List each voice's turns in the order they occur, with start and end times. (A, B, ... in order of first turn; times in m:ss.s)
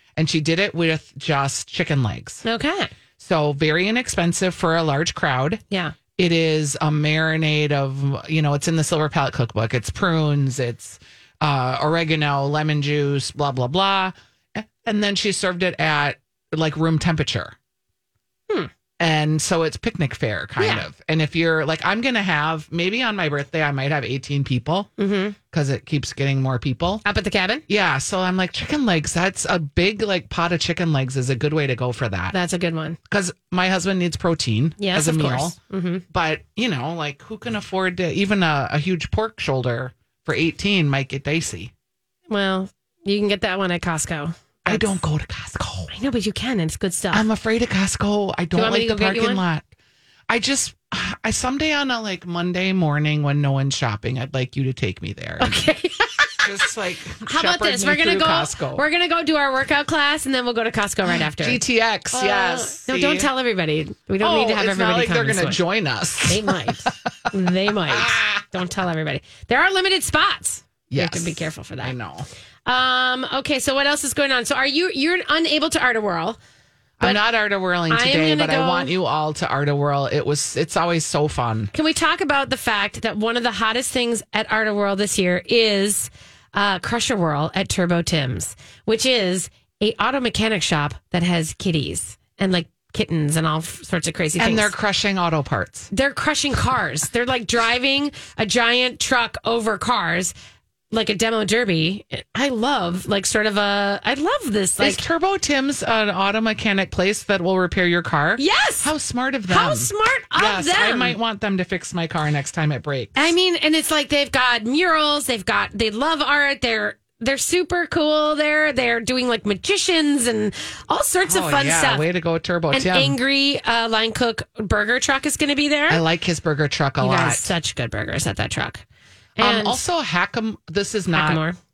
0:00.2-0:02.4 A
0:02.4-0:02.9 B
0:03.2-0:05.6 A
0:05.7-0:06.0 B
0:06.2-0:17.6 A
0:19.0-0:24.9 A
0:20.6-0:20.9 B
0:25.0-0:25.4 B
0:25.5-0:27.0 A
0:27.0-0:27.6 B
0:27.7-0:32.4 A
0:32.3-0:33.0 B
0:33.1-0:35.6 A
0:34.8-0:36.0 B
0:36.1-0:41.7 A
0:42.3-0:45.0 B
0:44.7-0:45.9 A
0:45.9-0:47.3 B
0:47.1-0:49.7 A
0:48.5-0:49.4 B
0:50.3-0:55.6 A
0:55.4-0:56.4 B
0:56.4-0:58.8 A
0:57.2-1:01.6 B
1:01.1-1:03.3 A
1:02.1-1:05.6 B
1:04.2-1:06.9 A
1:06.3-1:12.0 B
1:07.9-1:08.5 A
1:10.9-1:12.3 A
1:12.7-1:16.4 B
1:17.0-1:21.7 A
1:17.9-1:18.9 B
1:21.7-1:34.7 B
1:34.4-1:35.9 A
1:35.9-1:40.3 B
1:40.9-1:45.0 B
1:44.8-1:53.3 A
1:48.4-1:48.9 B
1:49.5-1:51.2 B
1:53.2-2:02.0 B
2:01.3-2:03.2 A
2:02.7-2:06.0 B
2:05.9-2:07.5 A
2:07.0-2:08.8 B
2:09.4-2:09.8 B
2:09.4-2:11.4 A
2:11.1-2:11.6 B